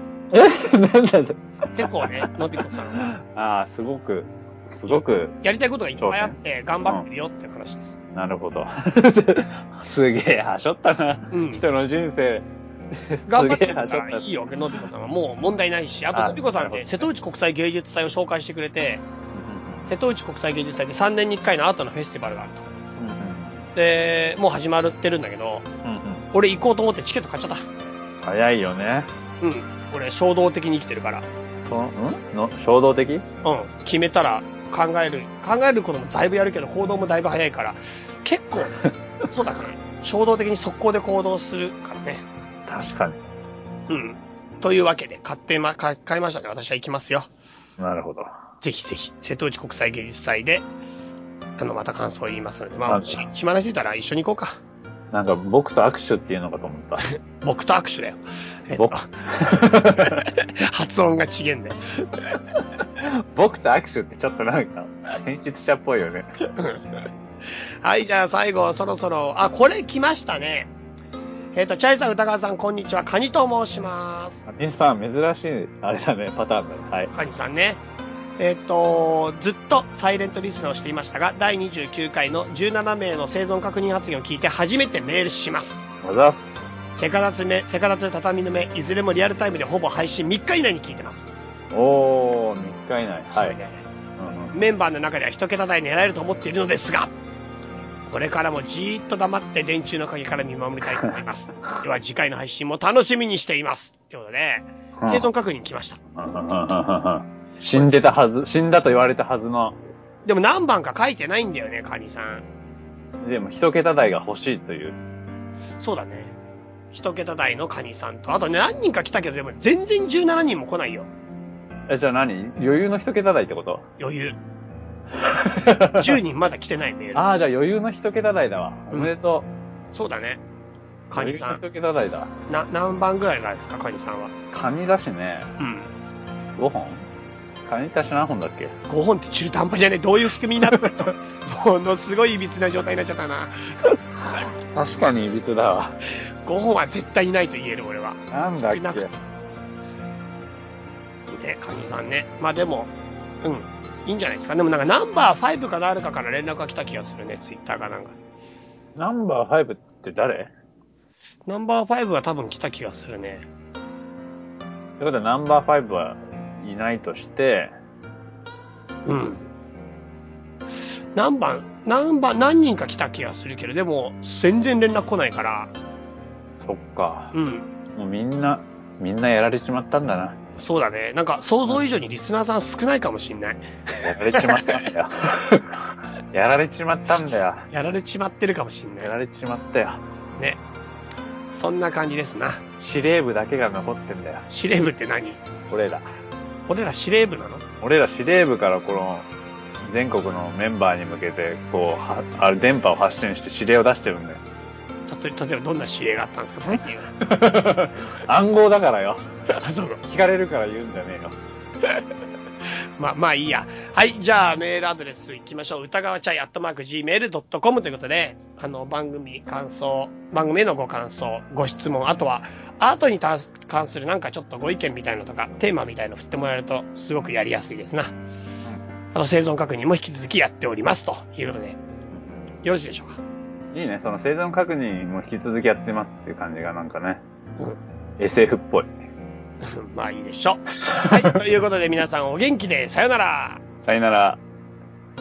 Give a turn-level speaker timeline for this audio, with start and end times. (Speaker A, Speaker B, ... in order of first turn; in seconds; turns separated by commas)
Speaker A: 0.3-2.2, Speaker B: 1.7-3.1, Speaker A: 3.0-5.4, Speaker B: 5.4-8.0, Speaker A: 6.0-7.0, Speaker A: 8.1-14.3, Speaker B: 11.3-11.6, Speaker B: 13.3-19.1, Speaker A: 16.1-17.1, Speaker A: 19.3-19.9, Speaker B: 19.9-22.7, Speaker A: 23.0-23.7, Speaker B: 23.8-25.7, Speaker A: 25.8-26.3, Speaker B: 26.3-27.7, Speaker A: 28.2-29.1, Speaker B: 29.4-31.3, Speaker A: 31.6-33.3, Speaker B: 33.4-42.2, Speaker A: 42.7-43.2, Speaker B: 43.9-47.3, Speaker A: 47.8-48.3, Speaker B: 48.6-50.7, Speaker B: 51.6-54.6, Speaker A: 52.9-53.3, Speaker A: 55.1-57.1, Speaker B: 57.1-61.8, Speaker A: 58.8-60.2, Speaker A: 62.6-66.3, Speaker B: 66.6-66.8, Speaker B: 67.8-70.7, Speaker B: 71.5-74.5, Speaker A: 74.5-77.1, Speaker B: 77.1-77.8, Speaker B: 78.4-85.8, Speaker A: 86.0-86.7, Speaker B: 86.9-91.3, Speaker A: 91.7-93.6, Speaker B: 93.3-93.8, Speaker A: 94.2-94.5, Speaker B: 94.5-97.1, Speaker B: 98.1-106.0, Speaker A: 105.0-105.3, Speaker A: 106.2-109.8, Speaker B: 107.7-108.1, Speaker B: 110.2-112.5, Speaker A: 113.2-115.0, Speaker B: 115.8-116.3, Speaker B: 116.9-121.1, Speaker A: 121.9-123.9, Speaker B: 124.0-124.4, Speaker A: 125.2-126.2, Speaker B: 125.9-127.3, Speaker A: 127.2-129.5, Speaker B: 129.9-130.4, Speaker B: 131.1-131.6, Speaker A: 131.2-132.3, Speaker B: 132.5-134.3, Speaker A: 134.5-135.5, Speaker B: 135.6-135.9, Speaker A: 136.6-137.1, Speaker A: 137.7-138.8, Speaker B: 138.9-144.0, Speaker A: 140.7-141.1, Speaker A: 144.2-146.0, Speaker B: 146.4-149.1, Speaker A: 148.3-149.1, Speaker B: 151.3-152.9, Speaker B: 153.4-158.2, Speaker A: 159.0-160.5, Speaker B: 161.5-163.5, Speaker A: 165.0-167.7, Speaker B: 169.1-169.5, Speaker B: 171.2-175.7, Speaker A: 176.6-177.3, Speaker B: 177.3-177.7, Speaker A: 177.9-180.4, Speaker B: 180.6-184.9, Speaker A: 184.0-187.7, Speaker B: 187.7-189.1, Speaker A: 189.0-190.0, Speaker B: 191.5-192.6, Speaker A: 192.8-194.5, Speaker B: 194.5-195.4, Speaker A: 195.7-196.1, Speaker B: 196.7-197.6, Speaker A: 197.8-199.3, Speaker A: 199.8-204.4, Speaker B: 205.1-207.1, Speaker A: 207.2-209.2, Speaker B: 209.6-210.0, Speaker A: 210.1-211.4, Speaker B: 213.0-228.1, Speaker B: 229.1-231.8, Speaker A: 232.1-232.4, Speaker B: 232.6-233.2, Speaker A: 233.7-237.2, Speaker A: 238.2-238.9, Speaker B: 239.6-243.6, Speaker A: 241.1-241.3, Speaker A: 243.8-244.4